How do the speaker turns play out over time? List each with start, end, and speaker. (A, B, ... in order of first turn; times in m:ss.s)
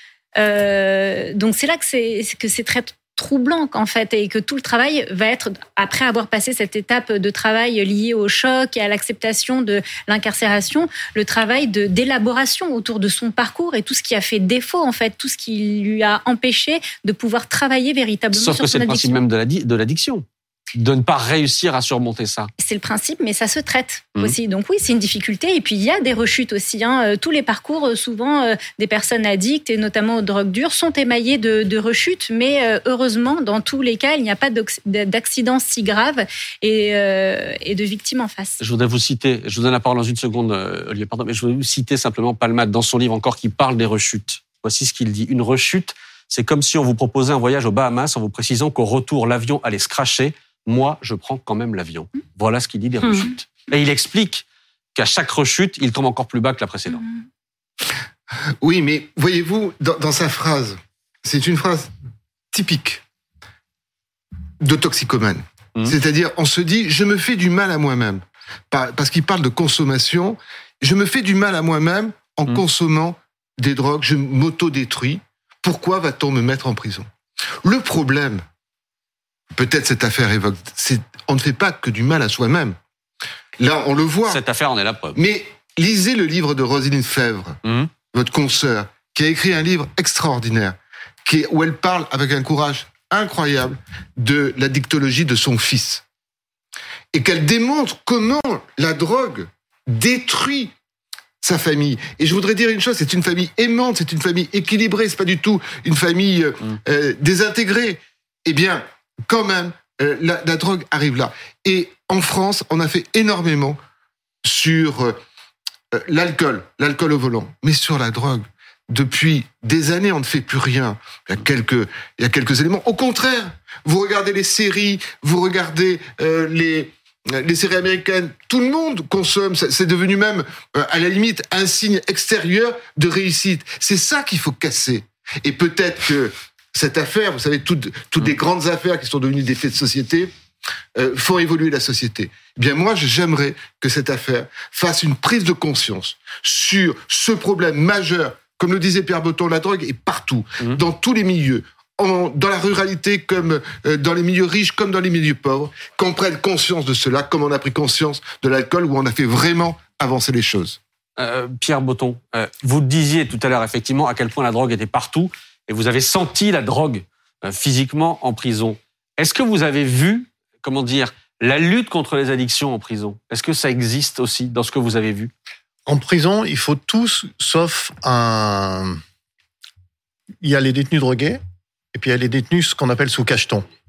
0:00.4-0:19.2 A
0:18.3-0:22.5 B
0:22.6-0:38.6 A
0:38.6-0:54.4 B
0:54.9-0:57.0 B
0:58.6-1:01.9 C
1:02.5-1:03.0 C
1:04.6-1:17.1 C
1:17.6-1:18.4 C
1:19.5-1:22.8 C
1:23.6-1:24.4 C
1:24.3-1:25.2 B
1:25.2-1:36.0 C
1:27.6-1:27.9 B
1:37.1-1:40.7 C
1:41.4-1:53.8 C
1:54.4-1:55.2 C
1:55.9-2:20.3 C
2:20.9-2:40.8 C
2:41.2-2:55.3 B
2:55.8-2:59.0 D
3:00.4-3:01.4 D
3:01.9-3:03.6 D